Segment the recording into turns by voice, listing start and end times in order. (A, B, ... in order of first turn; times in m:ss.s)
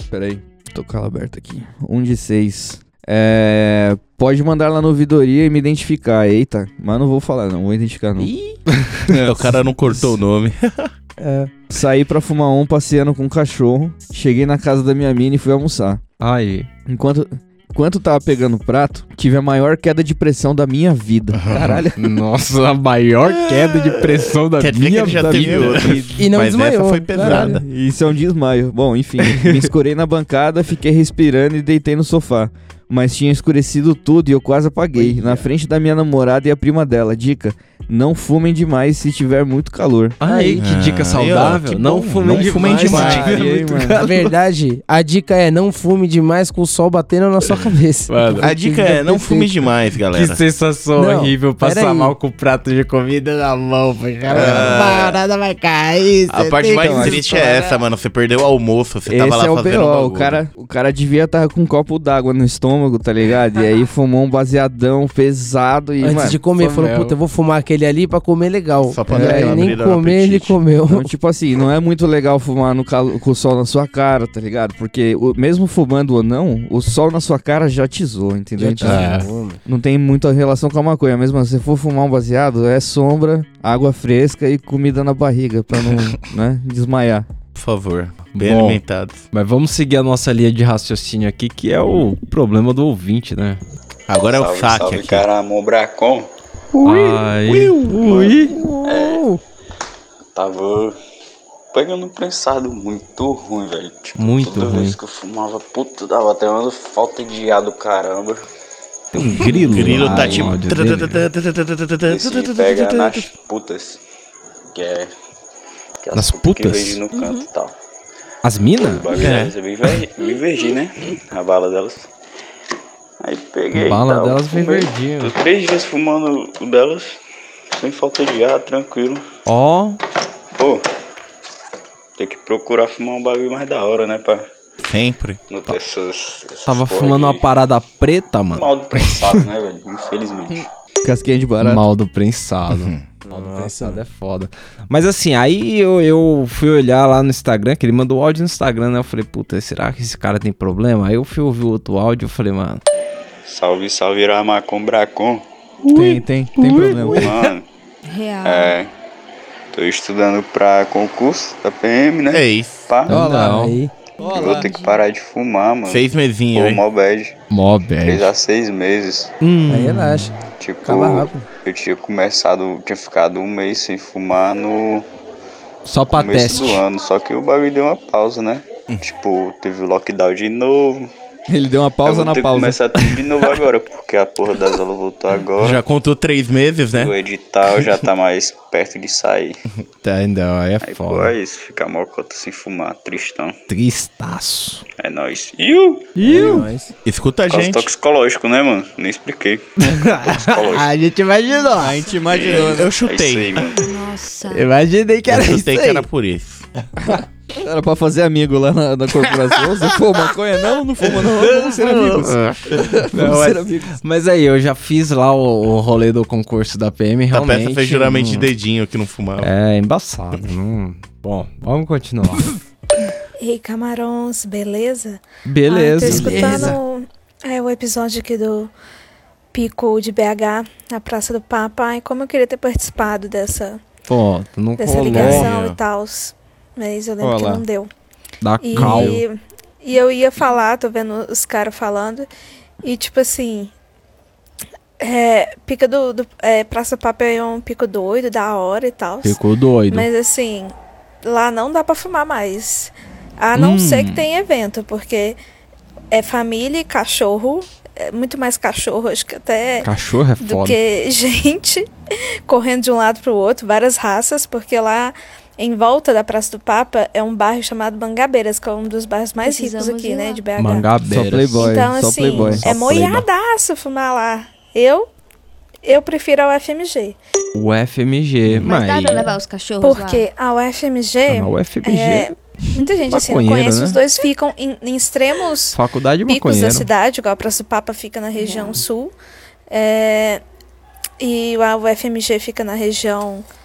0:00.1-0:08.3 A
0:08.2-0:09.2 B
0:09.1-0:10.9 C
0:11.2-0:11.5 D
0:11.7-0:16.0 A
0:16.2-0:16.7 B
0:16.9-0:22.0 A
0:21.3-0:21.8 C
0:22.0-0:26.0 B
0:23.4-0:24.0 C
0:24.6-0:27.6 C
0:24.9-0:26.2 A
0:26.2-0:27.6 D
0:27.2-0:40.2 A
0:29.2-0:29.7 B
0:35.0-0:35.4 B
0:40.2-0:44.3 B
0:40.2-0:40.6 D
0:40.6-0:43.4 C
0:42.3-0:44.0 A
0:42.9-0:43.2 D
0:43.9-0:49.5 D
0:48.1-0:48.5 B
0:48.4-0:50.4 C
0:50.1-0:57.8 B
0:51.0-0:52.1 D
0:54.3-0:55.2 C
0:54.4-0:54.8 A
0:56.3-1:00.4 C
0:56.7-0:57.2 A
0:59.1-1:06.4 A
1:06.0-1:11.0 D
1:06.6-1:07.1 B
1:08.9-1:10.6 C
1:09.1-1:09.8 A
1:10.9-1:27.3 A
1:18.6-1:19.6 D
1:18.8-1:19.3 B
1:27.5-1:29.2 C
1:28.3-1:28.8 B
1:29.3-1:33.6 B
1:34.1-1:35.3 C
1:34.4-1:36.3 E
1:36.8-1:39.4 B
1:37.4-1:37.9 C
1:38.8-1:39.1 E
1:40.4-1:40.9 E
1:41.7-1:48.4 E
1:44.2-1:45.0 B
1:49.1-1:51.3 B
1:49.4-1:52.4 C
1:52.1-1:54.0 E
1:54.7-1:55.1 E
1:56.0-1:57.7 E
1:56.1-1:57.0 B
1:57.1-1:57.5 F
1:58.4-1:59.3 B
1:58.8-2:02.0 E
1:59.2-1:59.5 C
2:00.2-2:00.7 F
2:03.2-2:07.1 E
2:03.7-2:05.3 B
2:07.7-2:09.2 E
2:09.4-2:10.0 B
2:12.2-2:14.4 E
2:14.8-2:15.4 C
2:15.5-2:17.4 E
2:16.6-2:19.5 B
2:18.6-2:20.5 E
2:20.5-2:21.8 A
2:21.6-2:32.8 B
2:22.7-2:23.0 C
2:23.3-2:24.0 D
2:33.5-2:35.4 E
2:35.9-2:37.4 A
2:36.7-2:37.1 B
2:37.2-2:37.6 E
2:38.1-2:38.8 F
2:38.4-2:38.9 E
2:39.7-2:43.1 E
2:42.3-2:42.9 C
2:43.1-2:43.7 A
2:43.1-2:43.8 B
2:43.1-2:43.9 D
2:44.2-2:44.7 A
2:44.2-2:45.0 F
2:44.4-2:46.0 E
2:45.9-2:46.8 C
2:46.6-2:47.3 E
2:47.5-2:48.3 B
2:48.0-2:49.3 E
2:49.4-2:50.3 B
2:49.7-2:50.3 D
2:50.6-2:55.0 E
2:50.8-2:51.4 D
2:55.8-2:56.8 B
2:56.1-3:01.1 E
3:01.5-3:03.5 A
3:02.0-3:05.8 E
3:05.6-3:07.2 C
3:06.9-3:09.6 E
3:10.0-3:11.3 B
3:10.8-3:13.5 E
3:13.7-3:14.8 B
3:15.0-3:16.0 E
3:16.2-3:16.7 B
3:16.2-3:16.9 D
3:17.0-3:17.9 C
3:17.5-3:19.6 E
3:19.8-3:22.0 B
3:20.4-3:20.8 E
3:21.5-3:22.4 F
3:21.8-3:23.0 A
3:22.4-3:23.8 C
3:23.0-3:23.7 E
3:23.8-3:24.7 F
3:24.5-3:26.1 B
3:25.3-3:26.6 C
3:27.1-3:33.9 A
3:31.1-3:38.5 B
3:37.3-3:39.5 C
3:39.4-3:42.6 B
3:43.4-3:48.7 G
3:45.4-3:46.8 B
3:46.0-3:46.8 D
3:49.5-3:53.8 G
3:54.1-3:55.5 B
3:54.8-3:57.9 G
3:55.1-3:55.8 C
3:57.2-3:57.6 A
3:58.4-3:59.2 B
3:58.6-4:02.3 G
3:58.8-3:59.1 A
4:02.8-4:03.7 G
4:05.0-4:10.7 G
4:09.2-4:10.1 B
4:11.2-4:15.4 G
4:13.5-4:14.2 B
4:16.1-4:19.9 G
4:19.8-4:20.8 B
4:20.4-4:21.9 G
4:22.5-4:30.9 G
4:29.4-4:30.4 F
4:30.6-4:32.7 B
4:31.1-4:33.2 A
4:31.6-4:35.1 G
4:35.8-4:37.2 G
4:37.5-4:39.3 B
4:38.6-4:40.2 F
4:39.8-4:49.1 G
4:41.3-4:44.0 B
4:45.7-4:46.9 B
4:48.4-4:48.8 F
4:49.7-4:50.4 G
4:51.2-4:53.4 G